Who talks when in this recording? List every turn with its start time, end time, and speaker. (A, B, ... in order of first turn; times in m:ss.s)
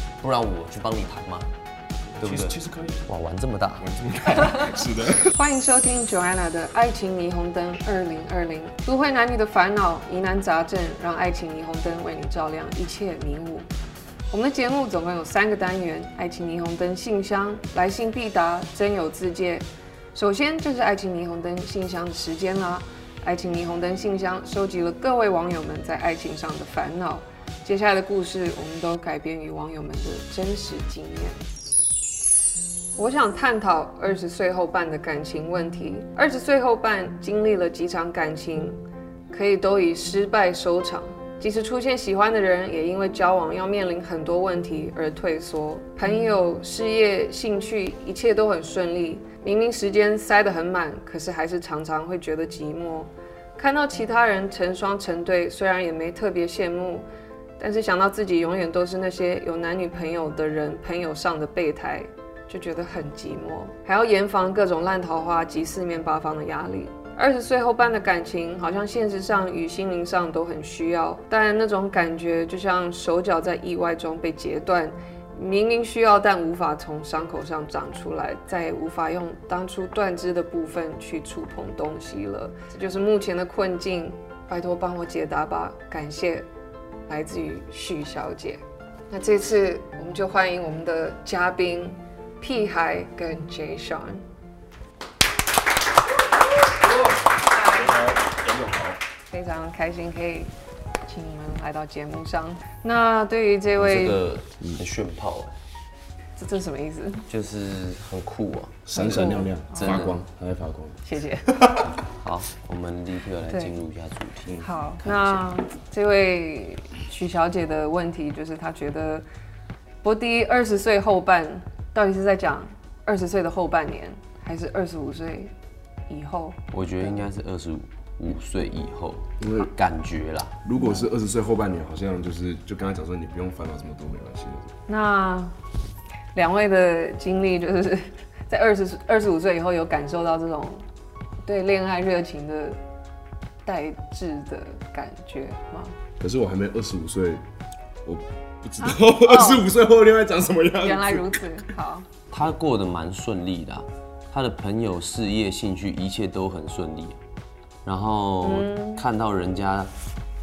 0:00.2-0:01.5 A
0:02.2-0:03.1 B
0:02.2-0:03.9 A
0:03.8-0:05.3 B
0:05.4-0:13.7 C
0:14.3-0:31.4 C
0:33.0-0:57.1 C
0:57.6-1:26.5 C
1:27.1-1:34.2 C
1:37.6-1:39.0 B
1:39.3-1:40.5 C
1:41.0-1:44.2 C
1:43.7-1:45.5 A
1:46.4-1:47.3 C
1:47.3-1:50.2 A
1:48.9-1:51.0 B
1:49.0-1:50.2 C
1:51.0-1:51.5 C
1:52.0-1:55.4 A
1:53.5-1:53.8 C
1:54.6-1:59.3 C
2:00.0-2:05.5 C
2:06.1-2:07.3 C
2:06.7-2:10.6 A
2:09.4-2:09.7 B
2:10.6-2:14.7 B
2:10.8-2:11.1 C
2:14.9-2:15.5 C
2:16.3-2:20.8 C
2:21.5-2:22.8 C
2:23.6-2:26.0 C
2:26.2-2:27.4 B
2:28.0-2:31.5 B
2:28.8-2:29.7 C
2:30.8-2:32.1 C
2:32.3-2:37.2 A
2:37.8-2:39.9 A
2:38.4-2:39.0 C